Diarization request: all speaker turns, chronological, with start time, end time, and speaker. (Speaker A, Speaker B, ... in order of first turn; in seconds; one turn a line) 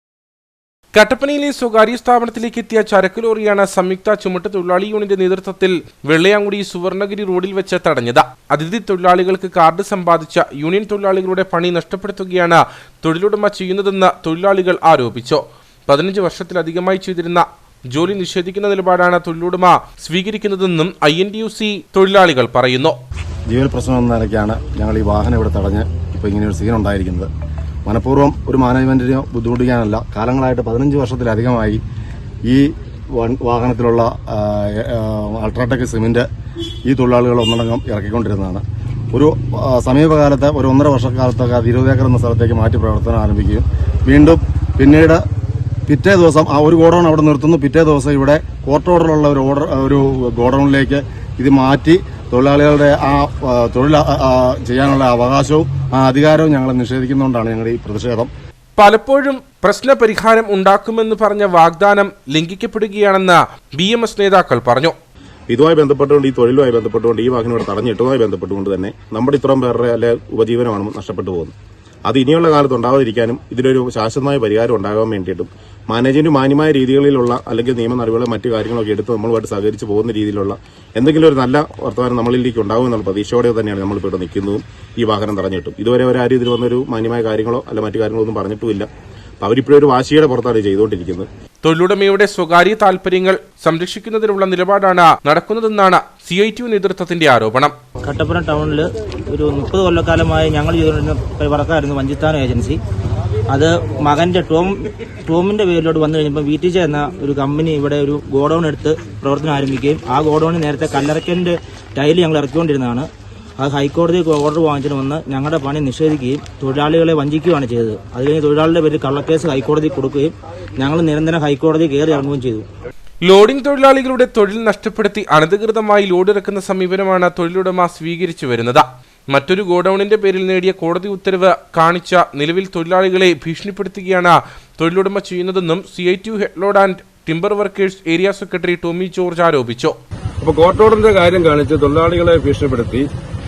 Speaker A: 0.9-22.9
Speaker B: 23.5-27.3
Speaker B: 27.9-31.8
Speaker B: 32.5-36.2
Speaker B: 36.9-45.2
Speaker B: 45.9-58.3
Speaker A: 58.8-64.9
Speaker C: 65.5-71.5
Speaker C: 72.1-88.9
Speaker C: 89.4-91.3
Speaker A: 91.6-97.8
Speaker D: 98.0-102.8
Speaker D: 103.5-113.1
Speaker D: 113.6-122.7
Speaker A: 123.2-139.9
Speaker E: 140.4-143.0